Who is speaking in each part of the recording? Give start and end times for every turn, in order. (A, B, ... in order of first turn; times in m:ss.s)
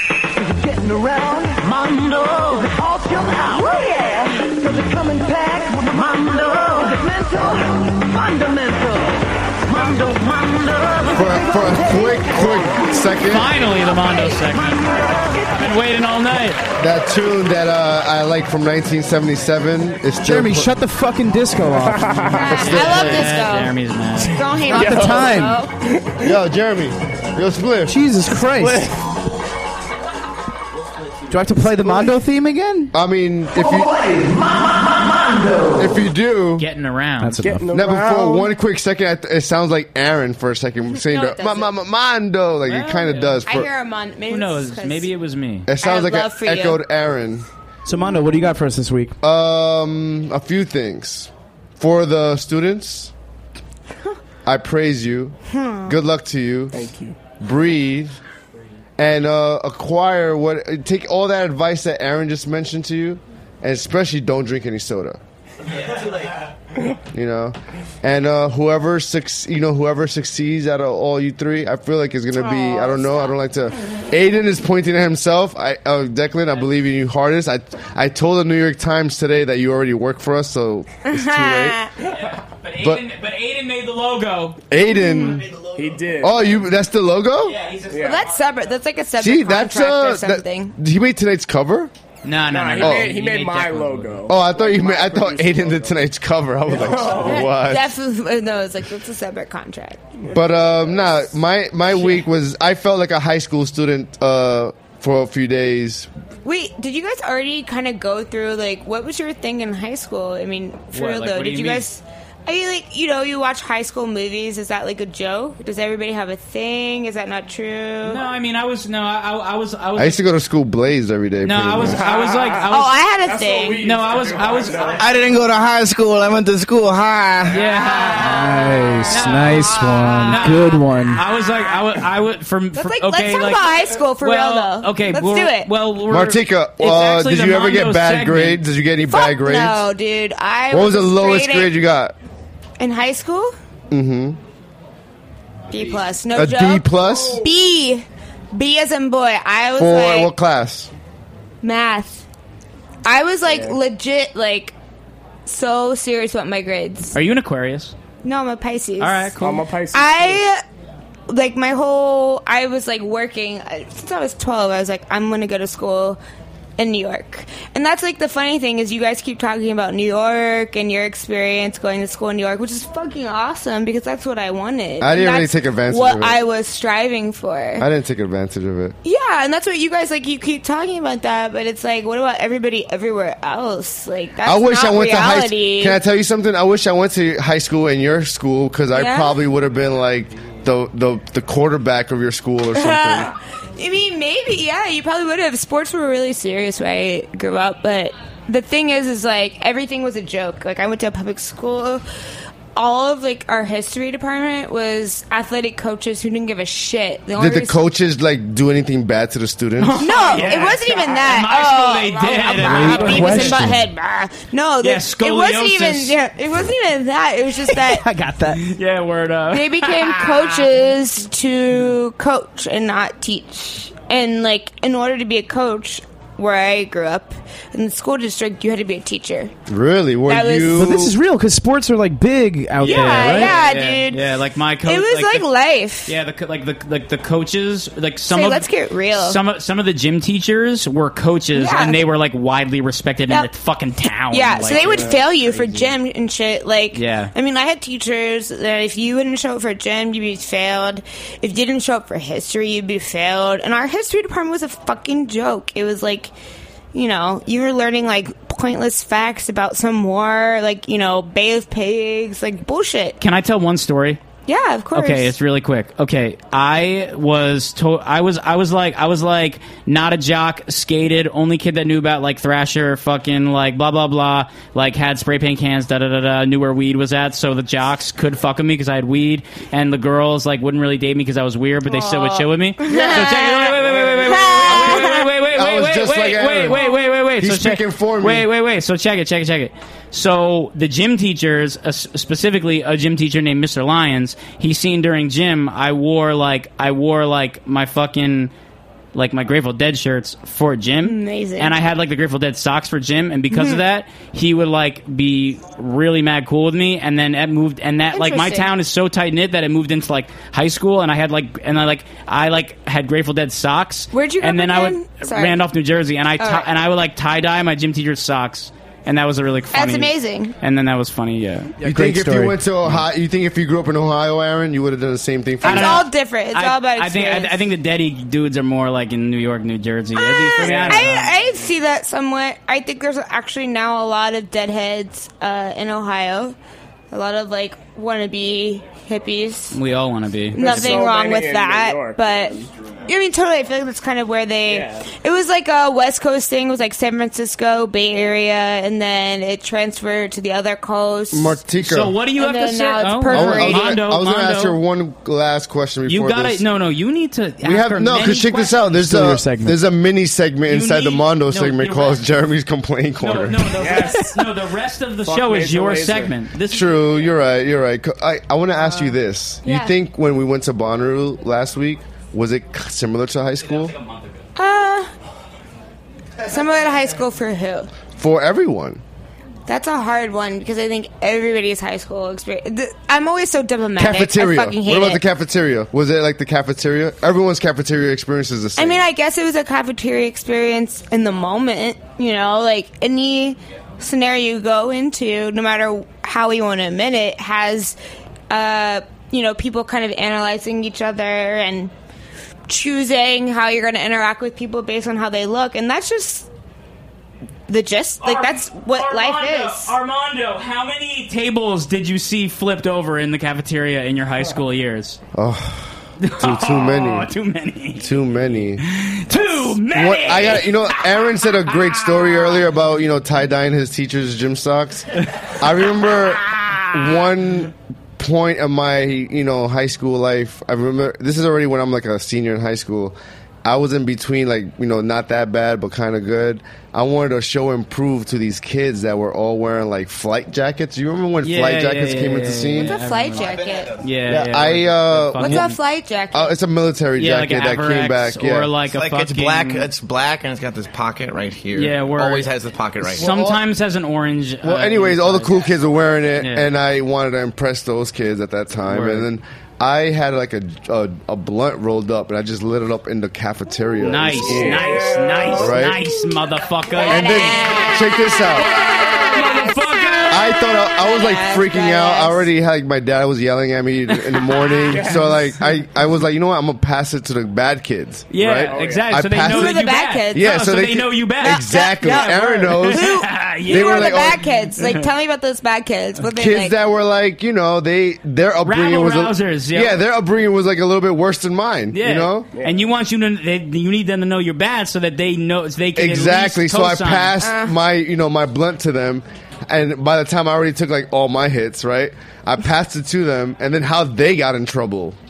0:00.6-0:12.2 A
0:11.1-0:13.5 B
0:13.3-0:16.6 C
0:16.8-0:20.7 B
0:20.2-0:22.4 D
0:21.8-0:22.7 E
0:22.3-0:25.7 F
0:22.5-0:23.3 B
0:22.5-0:24.4 C
0:24.6-0:26.3 E
0:24.7-0:25.6 D
0:26.2-0:28.0 B
0:27.9-0:28.8 D
0:28.6-0:28.9 E
0:31.3-0:32.9 D
0:32.9-0:34.0 B
0:35.8-0:36.6 B
0:36.6-0:37.4 C
0:37.2-0:37.6 D
0:37.4-0:38.5 E
0:37.7-0:43.7 B
0:41.0-0:41.7 F
0:42.7-0:43.4 C
0:43.4-0:45.1 F
0:44.3-0:45.7 C
0:45.7-0:47.4 B
0:45.8-0:46.8 F
0:47.8-0:49.1 D
0:49.2-0:53.1 B
0:54.4-0:55.4 B
0:55.5-0:55.9 F
0:55.9-0:58.1 B
0:56.7-0:57.2 E
0:59.0-1:05.2 B
1:07.1-1:21.8 B
1:12.5-1:12.8 F
1:21.0-1:21.9 F
1:22.1-1:24.6 C
1:24.7-1:25.5 B
1:25.0-1:25.3 F
1:25.7-1:26.7 E
1:26.2-1:27.6 B
1:27.4-1:28.3 C
1:27.9-1:28.2 E
1:28.0-1:30.7 F
1:29.2-1:31.9 B
1:32.2-1:34.2 C
1:32.5-1:36.0 E
1:32.8-1:33.1 B
1:34.3-1:37.9 B
1:36.6-1:37.5 E
1:37.2-1:40.0 F
1:40.2-1:41.2 E
1:40.3-1:46.1 B
1:46.4-1:58.2 F
1:50.9-1:51.9 C
1:58.0-2:00.2 C
2:00.0-2:02.1 B
2:01.4-2:02.9 C
2:01.9-2:05.1 E
2:02.7-2:03.9 F
2:03.8-2:05.0 C
2:04.9-2:07.6 G
2:07.5-2:08.6 C
2:08.1-2:11.2 D
2:09.1-2:18.6 C
2:09.6-2:10.6 F
2:12.7-2:15.7 F
2:16.1-2:19.9 B
2:19.0-2:21.8 F
2:20.7-2:22.1 B
2:22.8-2:23.5 F
2:23.9-2:24.4 B
2:25.7-2:30.3 F
2:26.3-2:27.4 B
2:29.7-2:30.9 B
2:31.6-2:32.2 F
2:33.0-2:34.7 F
2:33.4-2:33.8 E
2:35.4-2:37.2 F
2:37.1-2:37.9 C
2:38.2-2:39.3 F
2:39.0-2:39.6 C
2:39.4-2:40.4 E
2:39.9-2:40.6 F
2:41.3-2:46.2 F
2:46.8-2:57.9 F
2:55.0-2:56.4 B
2:57.8-2:59.0 B
2:59.0-3:06.0 F
3:04.4-3:13.3 B
3:08.9-3:09.4 F
3:12.7-3:22.0 F
3:22.7-3:27.8 F
3:27.4-3:30.2 B
3:29.8-3:33.7 C
3:30.0-3:38.0 F
3:32.6-3:33.8 D
3:34.8-3:36.2 C
3:37.9-3:38.6 D
3:38.6-3:40.6 C
3:39.5-3:49.5 F
3:49.7-3:51.1 B
3:50.2-3:50.8 F
3:50.7-3:53.6 D
3:52.8-3:55.5 C
3:52.8-3:54.2 F
3:54.8-3:56.1 F
3:56.0-4:05.9 C
3:58.3-3:59.4 F
4:01.5-4:02.0 F
4:04.0-4:16.3 F
4:06.9-4:07.3 C
4:16.9-4:23.2 F
4:23.2-4:24.2 C
4:24.5-4:25.4 F
4:24.9-4:58.5 C
4:41.8-4:45.3 F
4:44.6-4:48.5 B
4:59.1-5:21.7 C
5:01.0-5:01.8 F
5:03.5-5:03.8 F
5:08.1-5:08.7 F
5:14.1-5:15.6 F
5:16.4-5:16.7 F
5:19.7-5:20.5 F
5:21.8-5:23.0 D
5:21.8-5:26.0 B
5:25.6-5:27.6 F
5:25.6-5:31.3 C
5:30.1-5:36.6 F
5:37.1-5:39.8 F
5:39.7-5:41.0 C
5:40.5-5:51.6 F
5:40.6-5:42.7 E
5:44.7-5:45.1 E
5:51.3-5:52.2 B
5:51.8-5:54.8 C
5:52.3-5:54.0 F
5:53.3-5:56.6 B
5:56.0-5:58.8 C
5:57.6-6:04.0 B
5:58.9-5:59.8 D
6:00.7-6:02.2 C
6:03.2-6:06.9 C
6:03.7-6:04.5 E
6:05.2-6:06.4 E
6:06.7-6:13.9 B
6:09.6-6:09.9 F
6:14.6-6:15.1 F
6:16.4-6:17.9 F
6:18.2-6:19.0 B
6:19.7-6:25.2 F
6:24.0-6:29.0 B
6:28.8-6:38.0 F
6:38.5-6:41.9 F
6:42.7-6:46.5 F
6:47.7-6:50.0 F
6:48.2-6:55.2 C
6:55.4-6:55.9 B
6:56.2-6:58.1 C
6:56.4-6:57.3 B
6:58.0-6:58.8 B
6:58.8-7:00.7 C
6:59.8-7:05.1 B
7:05.6-7:23.0 B
7:21.4-7:25.8 C
7:22.8-7:24.0 F
7:24.3-7:25.8 B
7:25.4-7:26.6 F
7:26.3-7:28.7 B
7:27.2-7:29.9 C
7:28.8-7:33.3 G
7:31.7-7:32.5 C
7:33.1-7:35.6 C
7:33.1-7:33.6 B
7:34.6-7:45.0 B
7:36.4-7:36.7 C
7:38.9-7:39.3 C
7:44.0-7:48.0 C
7:44.3-7:45.8 E
7:45.5-7:46.0 B
7:47.0-7:52.5 F
7:47.1-7:48.7 B
7:48.6-7:50.4 C
7:50.3-8:04.4 B
7:54.4-7:55.0 C
7:54.9-7:55.5 E
7:58.3-8:04.2 C
7:58.6-7:59.1 E
7:59.5-8:00.5 F
8:01.4-8:06.7 F
8:06.3-8:12.5 B
8:08.6-8:10.0 C
8:11.9-8:17.3 C
8:12.5-8:12.8 E
8:16.0-8:25.2 B
8:17.4-8:17.8 F